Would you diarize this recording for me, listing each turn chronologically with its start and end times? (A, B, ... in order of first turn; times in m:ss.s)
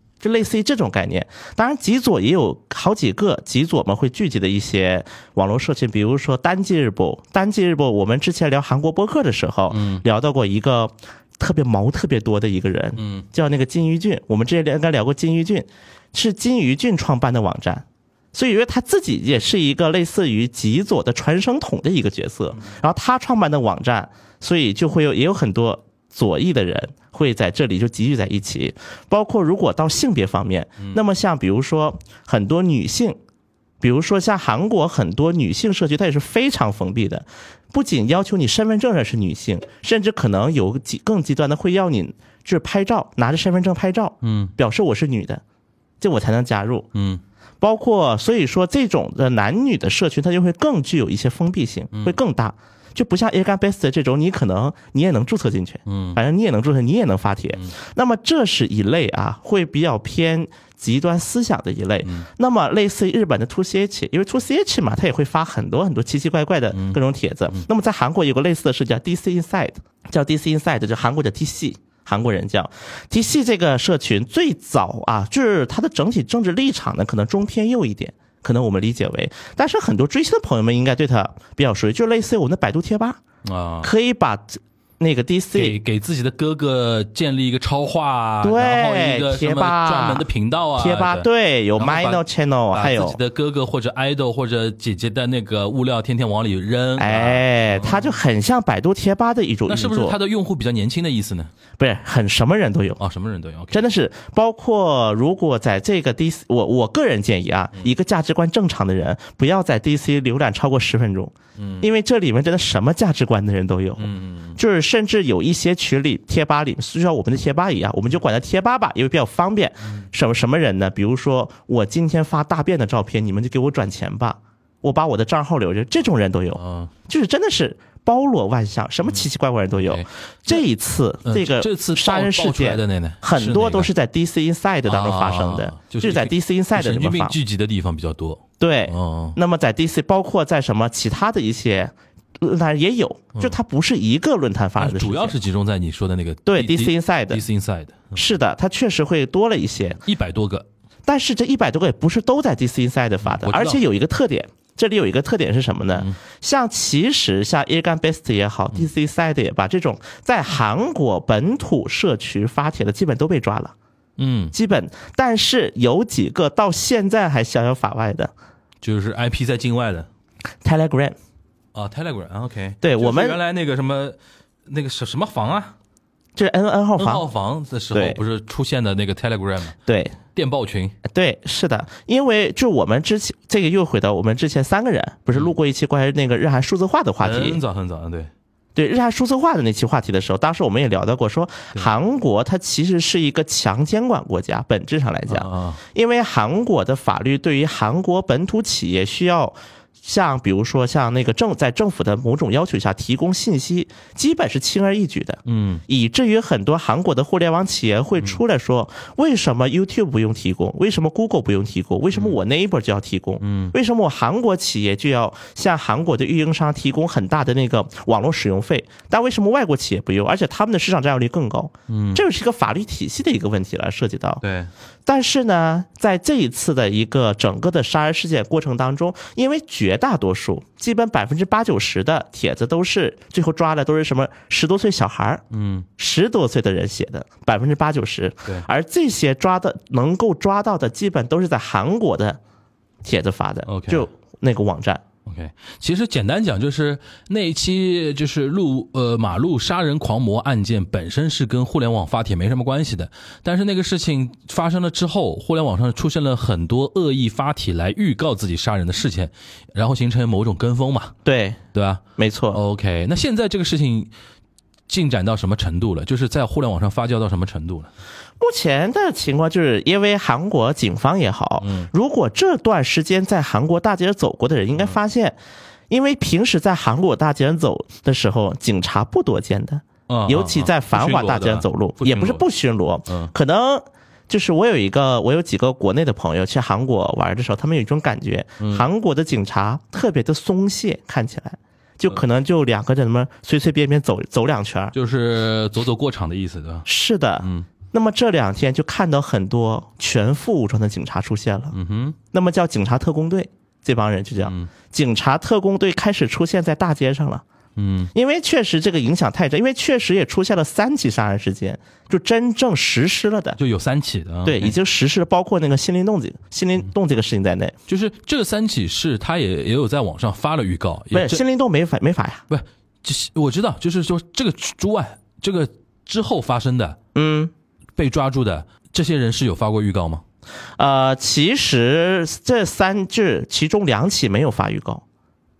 0:00.2-0:33.2 A
0:09.7-0:10.0 B
0:13.0-0:13.2 B
0:33.8-0:45.4 A
0:44.2-0:44.5 B
0:46.0-0:46.9 A
0:46.9-0:47.2 B
0:47.6-1:23.2 A
0:51.9-0:52.2 B
0:55.8-0:56.2 B
1:02.0-1:02.3 B
1:06.7-1:07.0 B
1:23.4-1:23.9 B
1:23.8-1:25.8 A
1:25.5-1:38.1 B
1:28.4-1:33.2 A
1:37.0-1:40.2 A
1:39.7-1:41.5 B
1:41.8-1:43.0 A
1:43.0-1:43.8 B
1:43.7-2:17.4 A
1:51.6-1:51.9 B
1:54.0-1:54.6 B
2:06.6-2:06.9 B
2:09.8-2:10.6 B
2:11.2-2:13.9 B
2:14.9-2:19.4 B
2:18.6-2:25.4 A
2:24.8-2:28.2 B
2:26.5-2:27.4 A
2:28.1-2:30.0 A
2:30.0-2:30.7 B
2:31.0-2:43.7 A
2:33.2-2:33.8 B
2:44.2-2:44.5 B
2:44.5-2:48.3 A
2:48.8-2:50.1 B
2:50.6-2:51.2 A
2:51.7-2:55.7 B
2:52.8-2:53.4 A
2:56.4-2:57.2 A
2:57.0-2:59.8 B
2:57.9-2:58.2 A
2:59.8-3:00.2 A
3:00.3-3:01.0 B
3:01.0-3:07.6 A
3:07.2-3:08.3 B
3:08.7-3:44.4 A
3:15.3-3:15.8 B
3:25.4-3:25.8 B
3:33.4-3:33.7 B
3:41.9-3:42.2 B
3:44.4-3:44.7 B
3:45.0-3:55.4 A
3:55.5-3:55.8 B
3:56.0-4:02.4 A
4:03.0-4:05.0 A
4:03.6-4:04.1 B
4:05.2-4:21.1 B
4:21.2-4:21.6 A
4:21.7-4:24.1 B
4:22.2-4:22.6 A
4:24.9-4:27.9 B
4:28.4-4:35.4 A
4:31.6-4:31.9 B
4:35.9-4:54.9 A
4:40.1-4:42.4 B
4:43.1-4:43.3 B
4:48.6-4:48.8 B
4:54.9-4:56.8 B
4:56.8-5:01.7 A
4:57.4-4:57.7 B
5:01.7-5:02.2 B
5:02.3-5:07.4 A
5:04.4-5:04.7 B
5:07.8-5:08.1 B
5:08.1-5:13.6 A
5:13.6-5:14.8 B
5:14.4-5:17.7 A
5:17.9-5:21.4 B
5:21.1-5:22.4 A
5:22.5-5:27.0 B
5:27.1-5:27.5 A
5:28.0-5:30.2 B
5:30.8-5:35.0 A